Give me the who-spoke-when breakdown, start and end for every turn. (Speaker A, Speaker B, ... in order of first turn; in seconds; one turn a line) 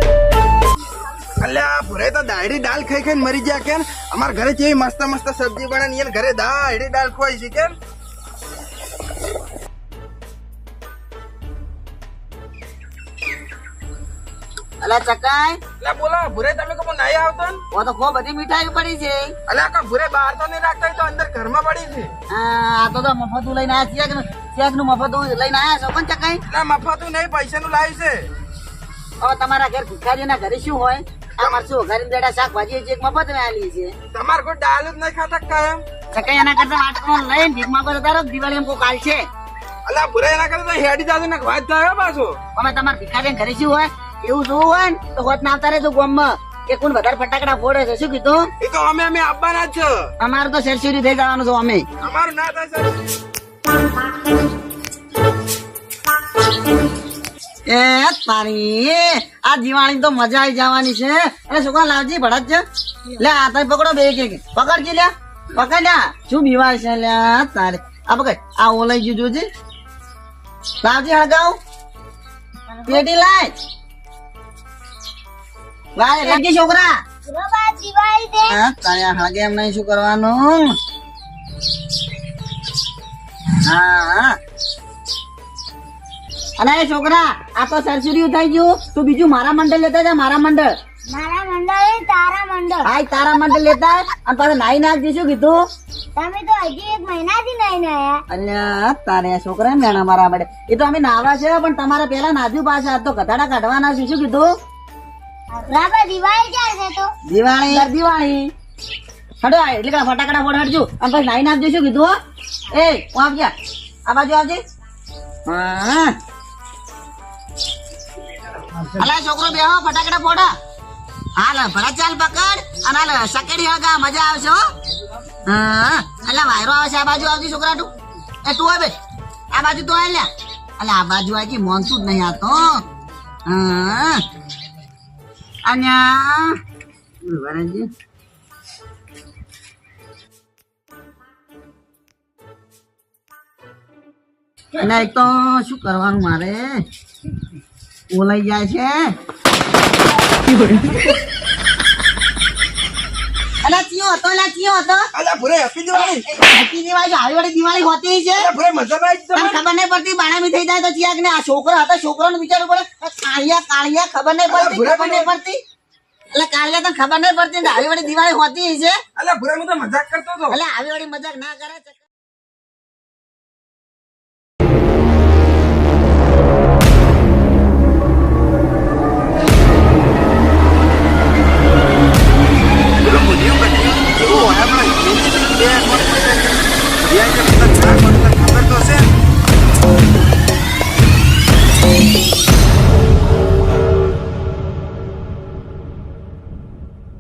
Speaker A: 1.4-7.8
Speaker B: 14.8-15.6
Speaker A: 15.8-17.6
Speaker B: 17.7-19.4
Speaker A: 19.5-22.1
Speaker B: 22.3-26.4
Speaker A: 26.5-28.3
Speaker B: 29.2-33.9
Speaker A: 34.1-35.8
Speaker B: 36.1-39.2
Speaker A: 39.9-42.4
Speaker B: 42.6-48.5
Speaker A: 48.6-50.1
Speaker B: 50.2-51.9
Speaker A: 52.0-53.0
Speaker B: 57.7-62.6
Speaker B: 63.2-69.5
Speaker B: 70.8-71.6
Speaker C: 72.7-73.0
Speaker B: 72.9-73.5
Speaker B: 76.0-77.0
Speaker C: 77.3-78.6
Speaker B: 78.5-80.8
Speaker B: 83.6-84.4
Speaker B: 86.6-90.8
Speaker C: 91.1-92.9
Speaker B: 92.8-95.6
Speaker C: 96.2-98.2
Speaker B: 98.3-104.5
Speaker C: 105.5-107.1
Speaker B: 107.3-108.5
Speaker B: 109.4-112.2
Speaker B: 112.7-113.5
Speaker B: 114.1-114.6
Speaker B: 115.5-116.2
Speaker B: 118.8-120.5
Speaker B: 121.4-124.7
Speaker B: 125.5-127.9
Speaker B: 128.4-129.0
Speaker B: 129.5-132.8
Speaker B: 133.5-134.2
Speaker B: 135.7-136.6
Speaker B: 137.2-137.9
Speaker B: 144.8-146.9
Speaker B: 148.1-149.1
Speaker B: 153.6-155.1
Speaker A: 155.1-156.2
Speaker B: 155.9-158.5
Speaker A: 158.4-159.6
Speaker B: 159.4-165.6
Speaker A: 164.5-165.3
Speaker B: 166.3-169.0
Speaker A: 169.2-170.6
Speaker B: 170.5-172.0
Speaker A: 183.0-189.1